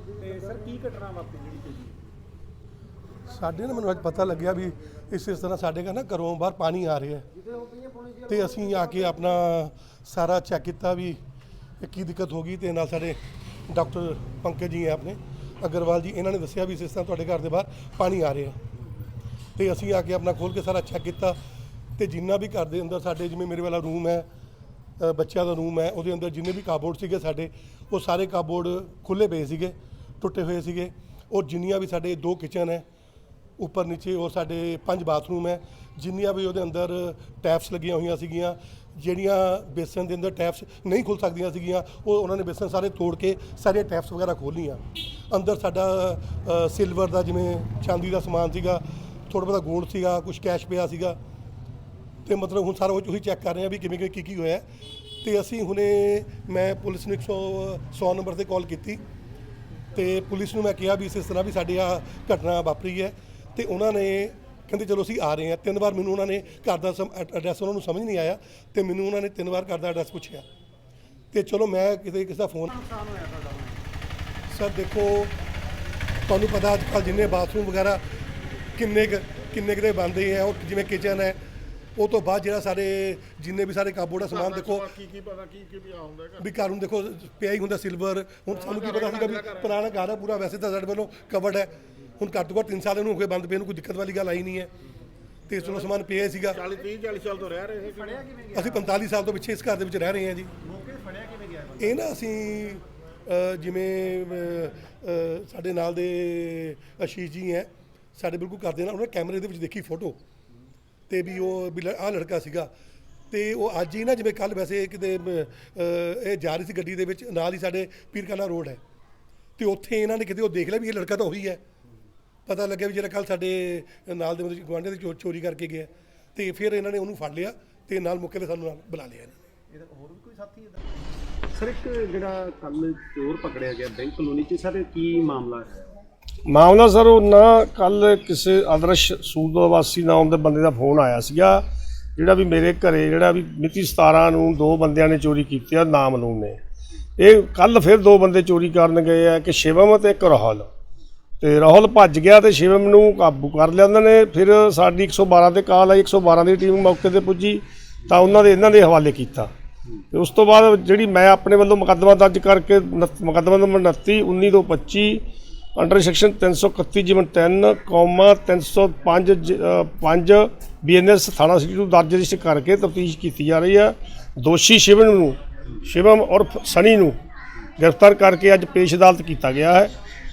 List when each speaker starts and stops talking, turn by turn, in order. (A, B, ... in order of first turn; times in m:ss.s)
0:00.2-0:02.0 A
0:03.3-0:07.3 B
0:08.2-0:11.2 B
0:11.8-0:13.2 B
0:13.7-0:18.6 B
0:19.6-0:21.4 B
0:22.0-0:24.3 B
0:25.0-0:32.8 B
0:33.6-0:51.2 B
0:52.3-0:54.6 B
0:55.2-0:59.0 B
0:59.9-1:10.5 B
1:11.3-1:12.7 B
1:12.7-1:13.8 A
1:14.5-1:15.3 B
1:16.3-1:18.0 B
1:18.8-1:21.4 B
1:22.0-1:24.9 B
1:24.4-1:26.4 C
1:26.4-1:34.7 B
1:28.6-1:29.6 C
1:35.5-1:36.6 B
1:36.5-1:38.1 C
1:37.8-1:38.9 A
1:38.5-1:40.5 B
1:40.6-1:42.0 A
1:41.8-1:50.2 B
1:51.1-1:52.7 B
1:53.3-1:58.8 B
1:59.6-2:01.6 B
2:02.5-2:09.4 B
2:09.7-2:10.9 A
2:11.5-2:15.8 A
2:16.5-2:21.6 D
2:22.2-2:26.6 D
2:27.2-2:30.7 D
2:31.4-2:39.5 D
2:40.1-2:45.2 D
2:45.8-2:57.2 D
2:57.8-2:59.9 D